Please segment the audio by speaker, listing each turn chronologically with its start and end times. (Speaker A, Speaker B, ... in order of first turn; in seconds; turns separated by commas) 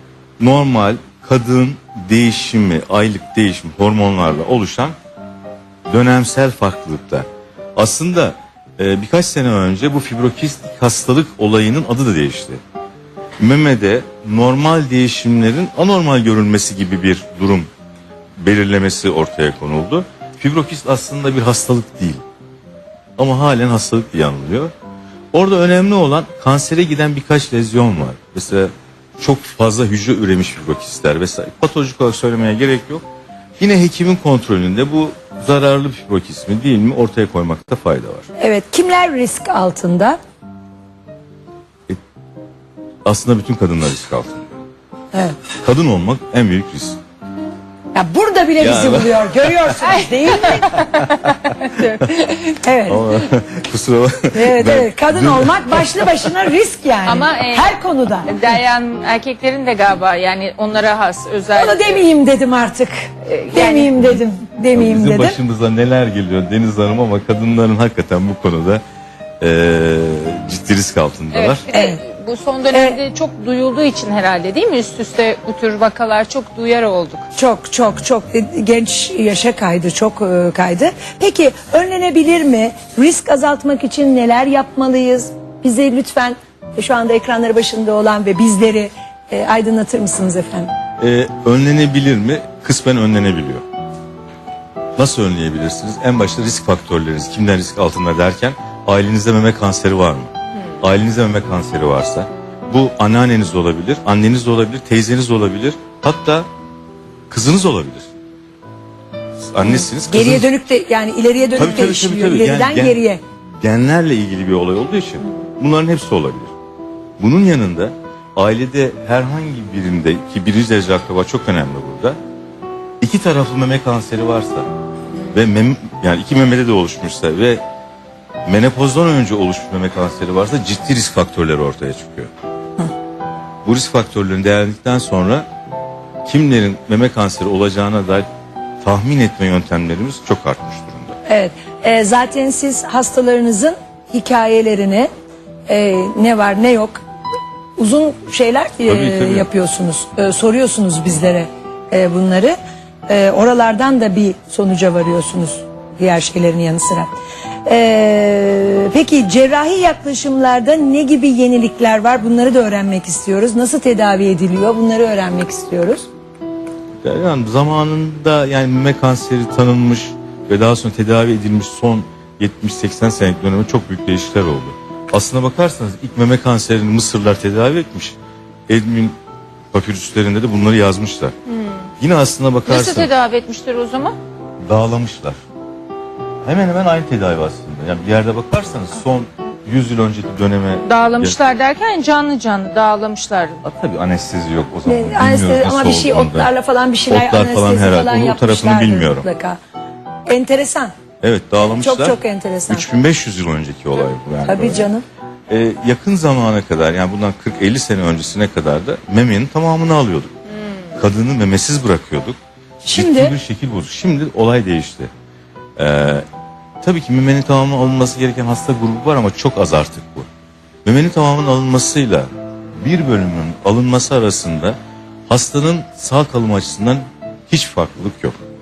Speaker A: 0.4-5.0, Speaker A: 5.9-12.6, Speaker A: 13.4-17.7, Speaker A: 18.4-22.2, Speaker A: 23.2-24.7, Speaker A: 25.3-33.0, Speaker A: 33.6-38.3, Speaker B: 38.4-40.2, Speaker A: 43.0-44.5, Speaker A: 45.6-47.0, Speaker B: 47.9-50.8, Speaker A: 48.6-49.8, Speaker C: 50.0-52.5, Speaker B: 52.6-53.1, Speaker A: 52.9-56.4, Speaker B: 54.3-58.3, Speaker C: 57.1-57.7, Speaker C: 58.3-62.0, Speaker B: 61.5-65.4, Speaker C: 63.2-64.1, Speaker A: 64.7-68.8, Speaker A: 69.4-71.6, Speaker C: 71.3-77.3, Speaker B: 71.7-72.0, Speaker B: 72.7-73.0, Speaker B: 77.4-90.7, Speaker A: 91.0-93.6, Speaker A: 95.0-106.5, Speaker A: 107.3-108.1, Speaker A: 109.4-110.5, Speaker B: 109.6-113.2, Speaker A: 111.6-113.0, Speaker A: 113.6-116.5, Speaker A: 117.2-122.2, Speaker A: 123.0-124.7, Speaker A: 125.3-127.6, Speaker A: 128.5-132.3, Speaker A: 133.7-135.5, Speaker A: 136.2-138.3, Speaker A: 138.8-141.2, Speaker B: 141.3-145.1, Speaker B: 145.7-147.0, Speaker B: 147.8-152.6, Speaker A: 148.9-149.5, Speaker B: 153.1-157.1, Speaker B: 157.7-166.1, Speaker A: 167.0-178.2, Speaker A: 178.7-179.2, Speaker A: 179.7-181.3, Speaker A: 182.0-183.1, Speaker C: 182.7-184.2, Speaker A: 184.7-185.4, Speaker A: 186.4-191.4, Speaker C: 190.8-193.6, Speaker A: 193.6-196.5, Speaker B: 194.9-199.6, Speaker A: 197.1-199.3, Speaker B: 200.3-200.9, Speaker A: 201.2-204.9, Speaker B: 201.6-202.9, Speaker B: 204.4-205.0, Speaker A: 205.5-210.3, Speaker A: 210.9-212.4, Speaker B: 212.8-213.4, Speaker A: 212.9-215.1, Speaker A: 215.8-216.3, Speaker A: 216.8-220.3, Speaker A: 220.8-222.3, Speaker A: 222.8-224.8, Speaker A: 225.3-228.4